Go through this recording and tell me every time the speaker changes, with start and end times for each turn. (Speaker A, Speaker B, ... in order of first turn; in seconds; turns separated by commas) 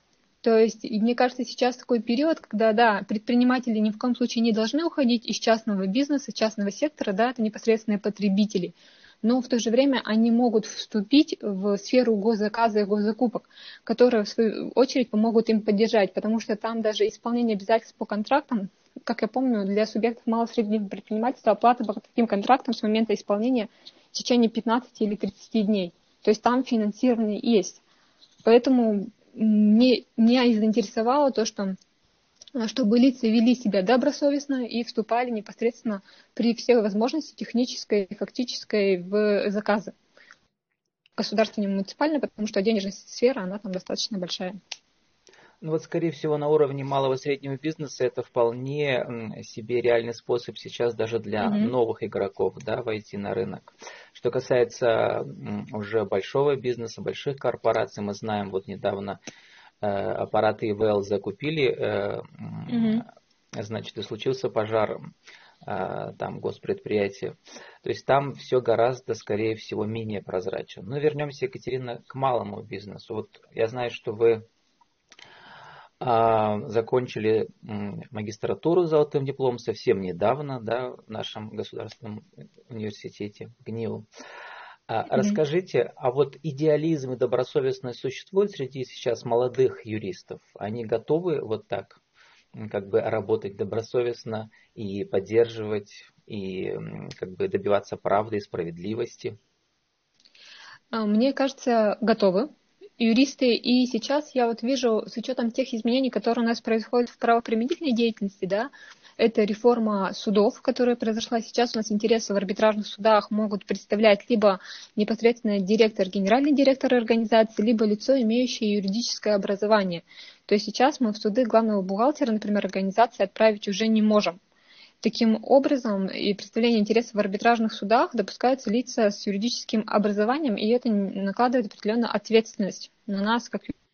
Speaker A: 0.4-27.8, Speaker A: 28.4-31.8, Speaker A: 32.5-39.9, Speaker A: 41.2-44.6, Speaker B: 45.6-59.2, Speaker A: 51.4-51.7, Speaker B: 59.8-63.0, Speaker A: 62.7-63.0, Speaker B: 63.6-65.0, Speaker B: 65.6-74.5, Speaker B: 76.0-84.0, Speaker B: 84.9-92.0, Speaker A: 85.1-85.4, Speaker B: 92.5-99.3, Speaker A: 100.9-124.4, Speaker A: 125.0-133.7